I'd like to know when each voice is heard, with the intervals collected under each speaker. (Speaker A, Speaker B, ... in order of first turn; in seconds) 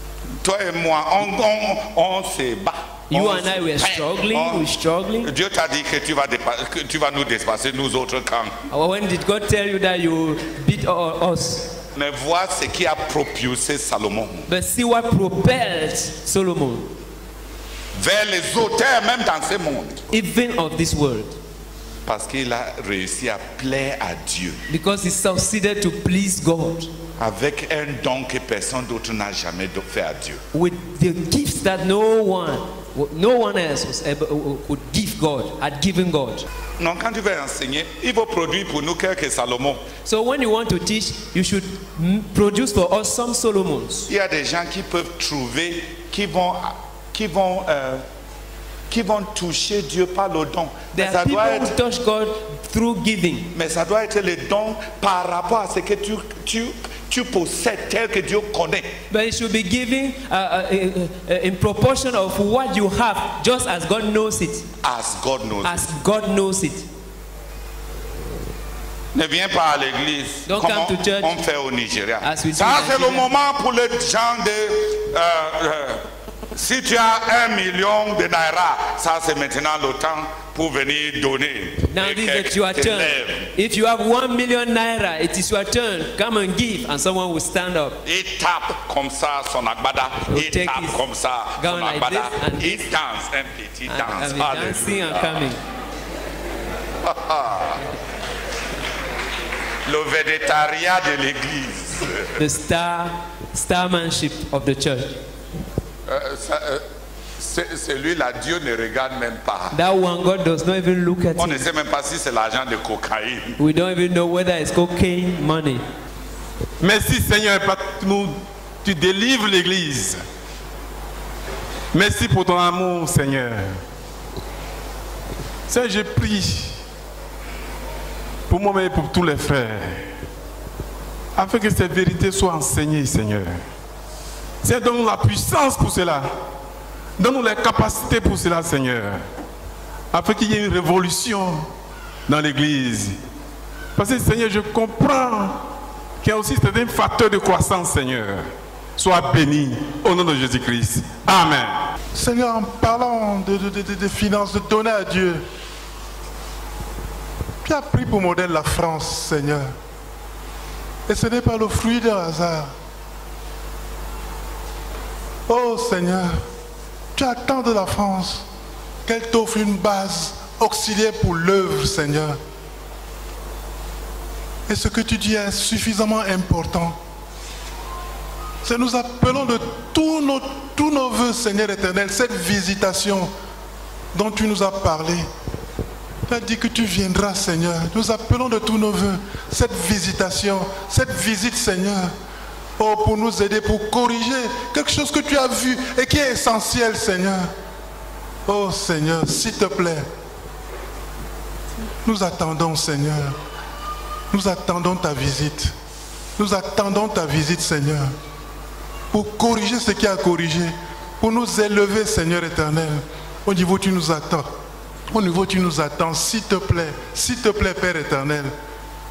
Speaker A: 0.4-4.7, 5.2-8.6, 11.9-14.5, 17.9-20.0, 22.0-24.6, 27.2-30.4, 36.8-39.8, 44.1-48.0, 48.9-51.8, 53.5-58.9, 64.8-65.9, 69.1-83.5, 88.0-95.4, 97.0-97.9, 99.8-102.4, 106.0-106.8, 107.4-109.7, 111.3-113.6
Speaker B: 3.1-5.3, 8.7-11.8, 14.5-16.9, 20.1-21.4, 24.7-26.9, 30.5-36.5, 40.0-44.1, 50.9-53.5, 59.1-64.7, 65.6-66.9, 70.5-71.4, 72.2-73.3, 81.9-88.0, 90.3-91.0, 91.6-92.9, 93.9-95.6, 102.4-105.2, 109.7-111.6, 113.6-115.8
Speaker C: 116.8-120.2, 121.9-123.8, 125.7-126.8, 128.5-130.1, 131.3-133.6, 134.6-136.3, 137.2-139.2, 140.1-141.7, 142.3-143.2, 143.9-145.6, 146.2-151.8
Speaker D: 152.1-155.4, 157.6-159.7, 161.1-162.7, 165.5-166.4, 167.2-168.4, 169.1-172.4, 174.7-177.0, 178.6-183.3, 184.1-185.2, 186.3-192.1, 192.8-197.5, 198.4-200.1, 202.0-203.4, 204.3-205.7, 206.4-208.1, 209.1-214.5, 215.1-218.5